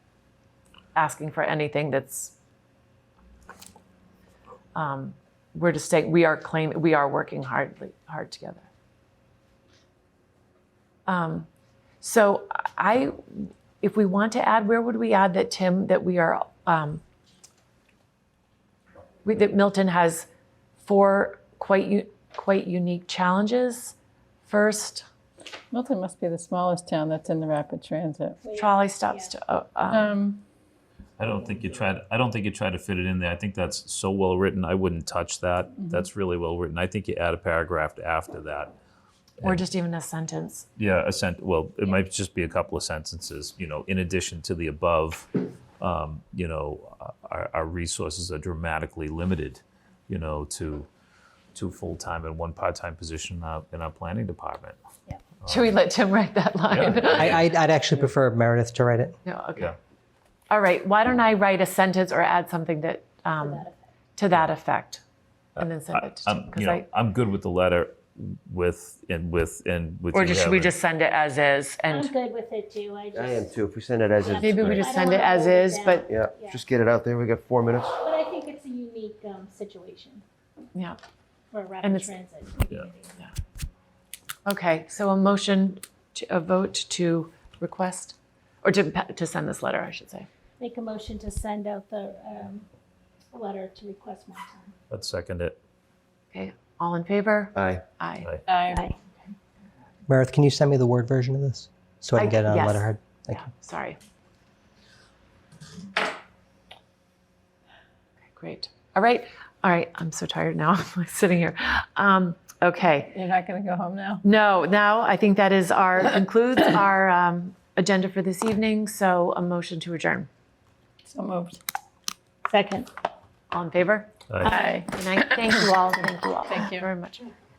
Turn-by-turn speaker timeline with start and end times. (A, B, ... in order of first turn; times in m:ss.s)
0:00.9-0:02.4 A
0:04.7-0:08.7 A
0:11.0-0:11.5 A
0:12.0-0:17.0 A
0:19.2-0:20.3 A
0:20.8-0:25.1 A
0:25.7-0:28.4 B
0:28.4-0:29.3 C
0:28.5-0:30.1 A
0:29.9-0:30.4 B
0:31.2-0:38.7 D
0:35.8-0:36.0 B
0:39.4-0:40.7 A
0:40.8-0:50.9 D
0:51.5-0:54.8 D
0:55.4-0:55.7 D
0:55.4-0:57.4 A
0:56.7-0:57.5 D
0:57.2-0:59.1 E
0:59.2-0:59.7 A
1:00.5-1:05.0 A
1:03.4-1:03.8 C
1:05.6-1:10.7 D
1:05.6-1:06.8 A
1:10.1-1:12.1 A
1:11.9-1:13.6 C
1:13.1-1:14.8 F
1:14.2-1:16.6 C
1:14.4-1:16.1 A
1:16.1-1:18.0 F
1:18.0-1:20.2 C
1:21.5-1:23.1 C
1:21.8-1:22.1 A
1:24.4-1:30.3 A
1:30.6-1:32.7 C
1:33.3-1:34.7 C
1:34.9-1:35.6 D
1:36.3-1:38.4 A
1:37.6-1:37.8 F
1:38.5-1:38.8 B
1:38.7-1:39.0 C
1:40.1-1:43.5 E
1:42.2-1:44.0 A
1:48.3-1:53.2 A
1:53.1-1:54.2 B
1:54.2-2:00.3 A
2:01.0-2:01.6 B
2:02.4-2:02.9 C
2:03.5-2:07.3 A
2:04.4-2:04.8 C
2:04.5-2:06.9 B